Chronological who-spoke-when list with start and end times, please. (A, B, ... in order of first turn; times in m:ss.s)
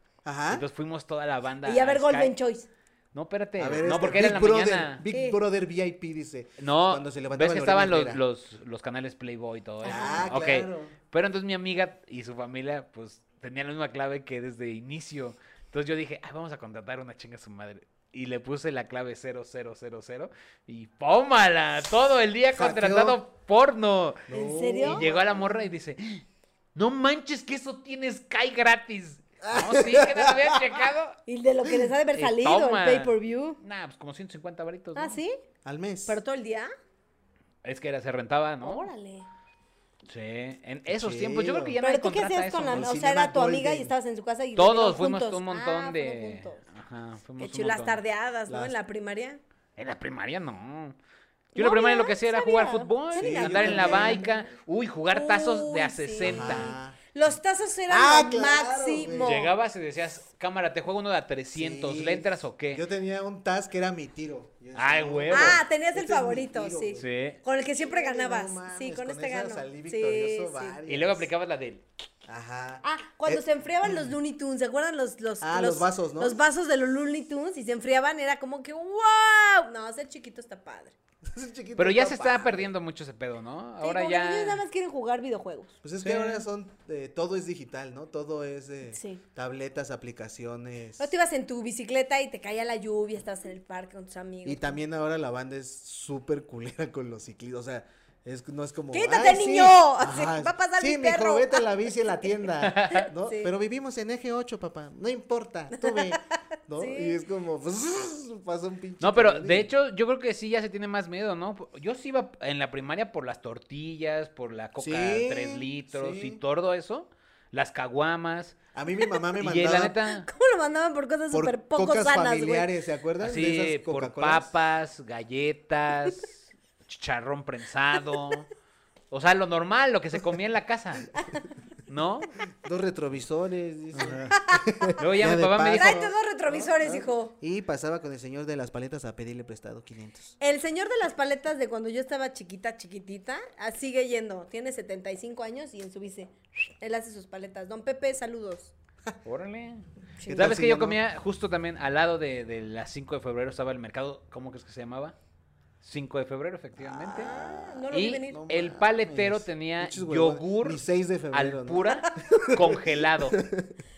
0:00.2-0:00.6 A
0:00.5-0:02.3 B
0:01.6-0:02.7 C
0:03.1-0:05.0 B
0:03.6-0:08.2 A
0:05.1-0:05.4 C
0:06.6-0:24.3 B
0:09.8-0:10.3 C
0:09.8-0:11.0 A
0:22.5-0:23.2 A
0:24.3-0:25.5 A
0:24.3-0:25.1 C
0:24.8-0:26.2 B
0:26.7-0:31.2 B
0:29.4-0:30.8 A
0:31.3-0:33.6 C
0:32.1-0:35.2 B
0:35.0-0:35.4 C
0:35.6-0:36.2 A
0:36.1-0:36.7 C
0:37.6-0:38.9 B
0:38.6-0:39.3 C
0:40.1-0:42.9 B
0:40.9-0:41.8 A
0:41.8-0:46.6 C
0:42.7-0:43.9 A
0:44.6-0:48.0 B
0:47.4-0:49.4 C
0:48.5-0:48.7 A
0:49.8-0:51.0 B
0:51.6-0:54.4 C
0:51.6-0:56.7 B
0:53.2-0:54.2 A
0:55.1-0:59.5 C
0:56.2-0:57.0 A
0:57.9-0:59.4 A
0:59.2-1:02.8 B
1:01.6-1:07.0 A
1:04.8-1:05.6 B
1:05.3-1:10.8 C
1:07.0-1:07.4 B
1:07.8-1:11.3 A
1:10.9-1:11.9 B
1:12.3-1:14.1 A
1:12.8-1:20.9 C
1:15.4-1:16.4 A
1:21.3-1:22.7 A
1:21.8-1:24.6 B
1:23.8-1:25.8 C
1:25.8-1:31.1 A
1:26.0-1:26.4 B
1:28.9-1:29.2 C
1:31.0-1:34.8 C
1:34.4-1:49.7 A
1:38.9-1:42.3 C
1:42.6-1:43.1 B
1:43.0-1:43.5 C
1:45.8-1:46.2 C
1:46.8-1:47.2 C
1:49.0-1:58.6 B
1:54.8-1:56.4 A
1:58.7-2:00.0 A
1:59.4-2:00.3 B
2:00.1-2:02.7 C
2:01.3-2:04.5 A
2:03.2-2:08.5 B
2:09.1-2:11.2 B
2:11.9-2:12.3 B
2:12.6-2:20.4 A
2:14.3-2:15.1 C
2:15.0-2:16.1 B
2:15.7-2:17.4 C
2:20.4-2:28.7 C
2:29.2-2:35.2 B
2:30.2-2:30.5 C
2:30.3-2:31.0 A
2:35.8-2:37.3 B
2:36.8-2:43.8 A
2:37.1-2:38.4 C
2:37.9-2:43.4 B
2:41.9-2:42.4 C